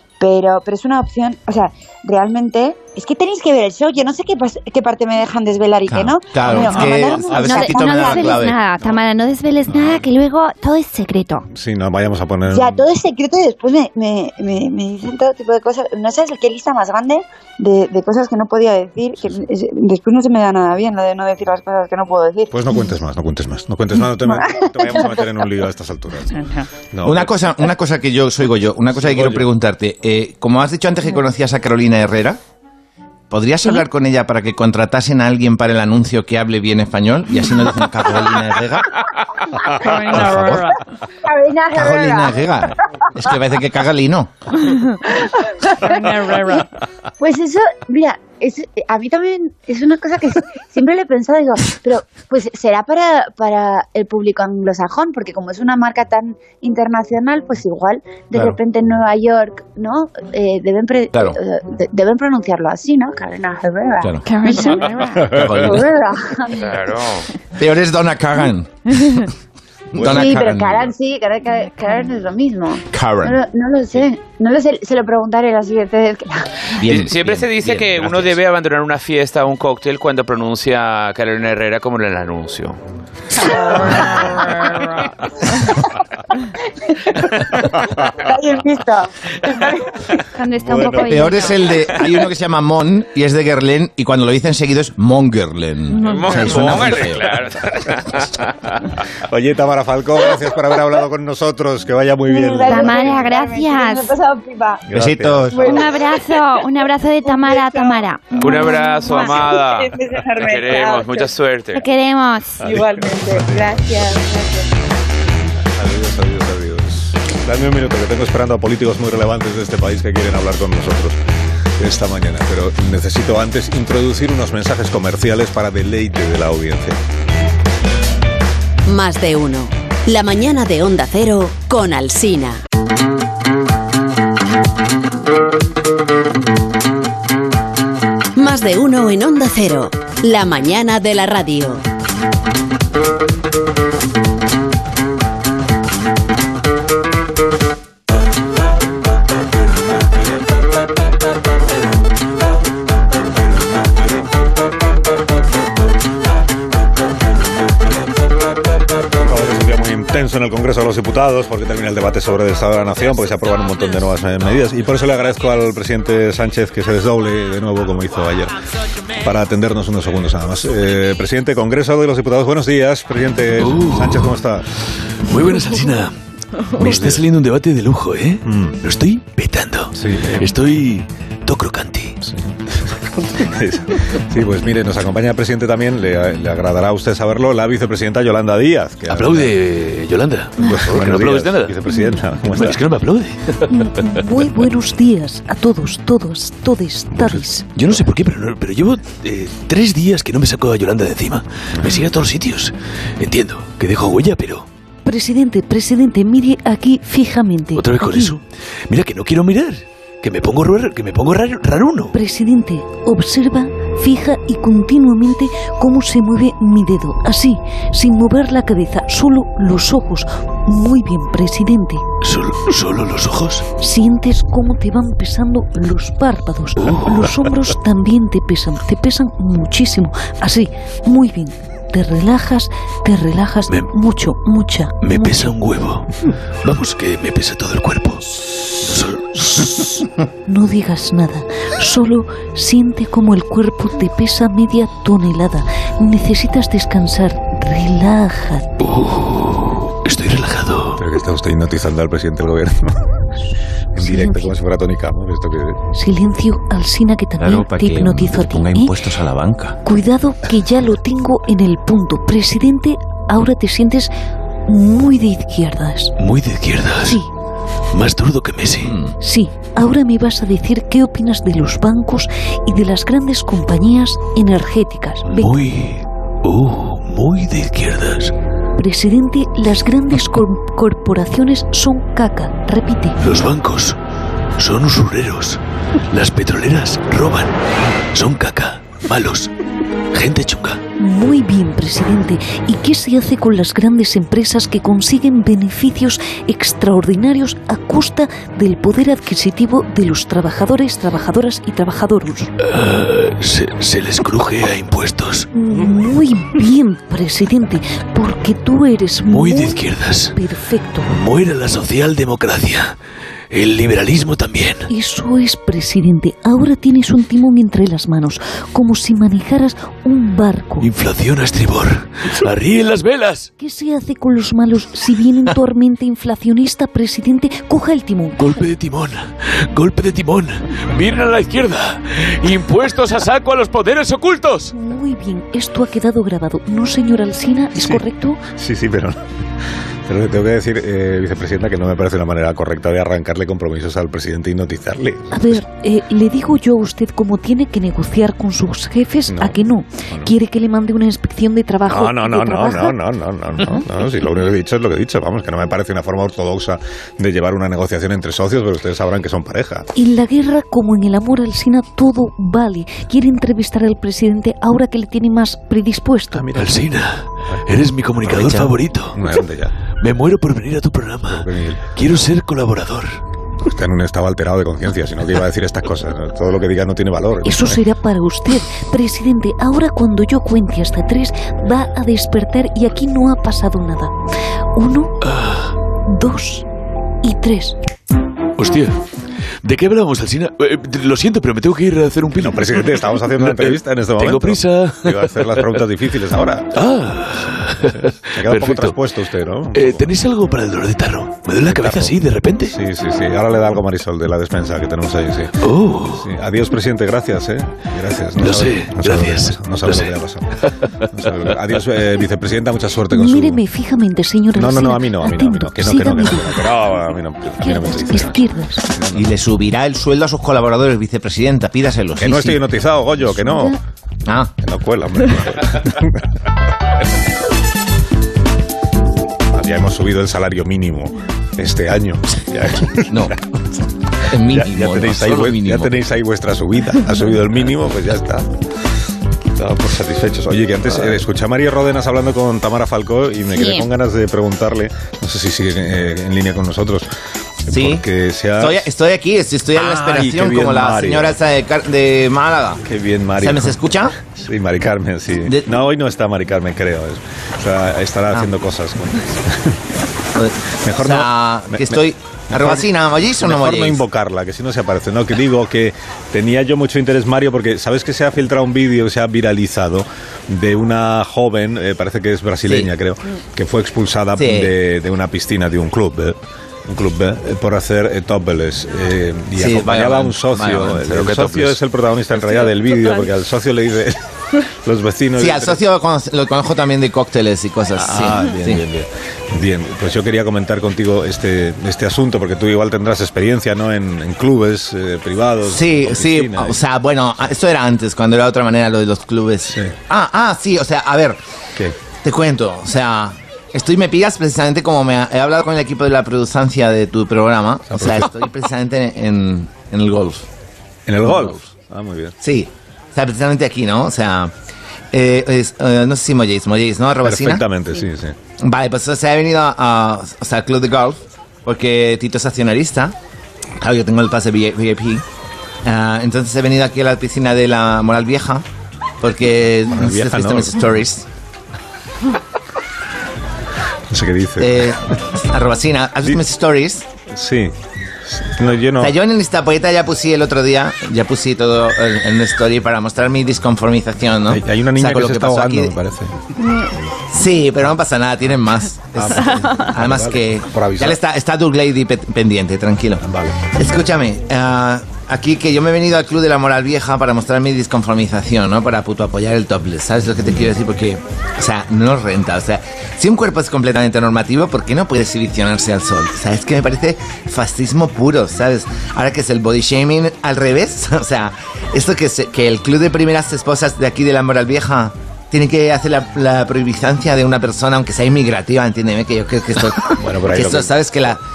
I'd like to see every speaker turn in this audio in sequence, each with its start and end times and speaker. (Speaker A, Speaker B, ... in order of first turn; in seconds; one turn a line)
Speaker A: 0.2-8.4
Speaker B: 5.9-8.6
Speaker C: 6.6-11.4
Speaker D: 9.7-10.0
Speaker D: 11.5-12.8
Speaker A: 12.5-22.5
Speaker D: 22.5-26.4
Speaker A: 24.1-25.3
Speaker D: 26.9-27.4
Speaker B: 27.0-32.4
Speaker D: 28.9-29.4
Speaker B: 33.3-38.9
Speaker B: 39.8-40.8
Speaker A: 41.2-42.4
Speaker B: 41.7-44.3
Speaker A: 45.1-46.6
Speaker A: 47.2-66.6
Speaker B: 61.1-61.4
Speaker B: 64.0-64.3
Speaker C: 64.2-65.2
Speaker B: 65.2-65.9
Speaker D: 65.3-65.7
Speaker E: 66.5-67.3
Speaker B: 67.6-69.3
Speaker D: 69.9-70.5
Speaker B: 69.9-70.9
Speaker A: 70.0-76.5
Speaker B: 72.9-73.4
Speaker B: 76.8-78.4
Speaker E: 76.8-82.8
Speaker A: 86.9-87.2
Speaker A: 88.0-90.0
Speaker C: 90.3-91.6
Speaker D: 90.5-91.3
Speaker B: 91.0-97.4
Speaker E: 96.0-98.5
Speaker D: 96.4-96.9
Speaker D: 99.3-103.2
Speaker A: 102.2-104.8
Speaker C: 102.6-104.1
Speaker D: 104.9-105.7
Speaker B: 104.9-105.7
Speaker A: 105.5-106.7
Speaker C: 105.6-109.5
Speaker A: 107.2-111.3
Speaker E: 108.4-111.8
Speaker C: 111.7-112.8
Speaker D: 112.6-113.8
Speaker A: 112.6-114.7
Speaker D: 115.8-121.2
Speaker D: 121.8-127.0
Speaker F: 128.9-132.6
Speaker F: 138.3-141.8
Speaker D: 159.2-168.5
Speaker D: 169.2-174.7
Speaker G: 173.6-174.4
Speaker G: 175.2-176.2
Speaker G: 176.8-182.2
Speaker D: 176.8-177.2
Speaker D: 178.4-178.8
Speaker D: 179.9-180.6
Speaker D: 182.2-189.5
Speaker G: 189.1-191.8
Speaker D: 190.6-192.8
Speaker G: 192.4-193.7
Speaker H: 193.7-197.7
Speaker D: 197.2-197.4
Speaker G: 197.7-204.7
Speaker H: 205.0-208.4
Speaker G: 207.7-212.1
Speaker H: 212.1-222.0
Speaker G: 222.2-223.7
Speaker H: 223.8-235.5
Speaker G: 226.8-227.3
Speaker G: 235.0-236.1
Speaker G: 236.6-239.9
Speaker H: 240.4-248.7
Speaker G: 248.8-251.0
Speaker D: 251.0-253.0
Speaker D: 253.9-255.8
Speaker H: 254.0-254.5
Speaker H: 255.9-259.1
Speaker I: 257.4-259.7
Speaker H: 259.8-264.1
Speaker H: 264.7-266.1
Speaker G: 266.2-267.2
Speaker H: 267.0-267.3
Speaker G: 267.9-269.0
Speaker B: 268.8-269.1
Speaker H: 269.2-275.6
Speaker G: 275.2-278.3
Speaker H: 278.8-283.2
Speaker G: 283.2-284.0
Speaker G: 284.6-287.6
Speaker G: 288.1-289.5
Speaker G: 290.1-290.8
Speaker H: 291.0-302.5
Speaker G: 302.6-305.5
Speaker H: 305.5-311.1
Speaker G: 309.3-310.4
Speaker G: 311.1-313.0
Speaker G: 313.5-314.9
Speaker H: 314.9-320.9
Speaker G: 320.8-323.5
Speaker H: 323.6-328.5
Speaker G: 328.4-334.7
Speaker H: 334.7-338.4
Speaker D: 337.8-339.2
Speaker D: 340.1-345.6
Speaker H: 345.3-352.9
Speaker D: 349.3-349.6
Speaker D: 351.9-359.9
Speaker H: 359.9-366.4
Speaker D: 366.3-366.9
Speaker G: 366.5-369.4
Speaker D: 368.2-369.7
Speaker G: 370.0-373.2
Speaker D: 371.3-371.9
Speaker D: 373.6-377.8
Speaker H: 377.4-384.1
Speaker H: 384.8-385.2
Speaker G: 385.2-385.7
Speaker H: 386.1-386.6
Speaker H: 387.2-387.8
Speaker G: 388.6-389.0
Speaker G: 389.6-395.8
Speaker D: 392.4-396.7
Speaker G: 396.7-399.0
Speaker D: 397.5-400.1
Speaker G: 399.7-402.8
Speaker D: 401.6-405.6
Speaker G: 405.6-406.3
Speaker D: 406.1-413.6
Speaker G: 408.4-410.1
Speaker G: 410.8-411.5
Speaker H: 413.1-416.7
Speaker D: 414.5-419.3
Speaker H: 417.6-418.9
Speaker B: 419.1-422.6
Speaker D: 422.2-423.7
Speaker H: 423.2-423.8
Speaker B: 424.2-424.5
Speaker D: 424.6-426.2
Speaker D: 429.5-433.3
Speaker B: 433.0-433.3
Speaker B: 434.3-435.9
Speaker D: 434.4-438.5
Speaker D: 439.6-447.1
Speaker D: 447.6-448.9
Speaker B: 447.7-448.0
Speaker B: 448.6-452.8
Speaker D: 449.7-451.3
Speaker D: 452.9-459.8
Speaker B: 453.4-454.1
Speaker B: 455.4-455.7
Speaker B: 460.4-464.0
Speaker D: 460.8-462.0
Speaker D: 462.5-462.9
Speaker D: 463.4-485.8
Speaker B: 474.4-474.7
Speaker B: 479.5-481.8
Speaker B: 485.4-488.8
Speaker D: 488.0-496.8
Speaker B: 495.6-501.4
Speaker B: 502.2-510.4
Speaker D: 507.9-508.4
Speaker D: 511.1-512.3
Speaker B: 511.2-511.5
Speaker B: 512.4-514.5
Speaker B: 515.1-517.6
Speaker D: 517.2-518.3
Speaker B: 518.6-523.1
Speaker B: 523.8-525.2
Speaker B: 525.8-528.6
Speaker B: 529.2-531.2
Speaker D: 529.9-530.8
Speaker D: 534.1-534.9
Speaker B: 534.6-537.1
Speaker D: 537.3-537.7
Speaker D: 538.3-539.1
Speaker B: 539.0-545.9
Speaker D: 544.5-546.3
Speaker B: 547.3-581.4
Speaker D: 549.1-551.2
Speaker D: 553.2-553.6
Speaker D: 580.1-580.9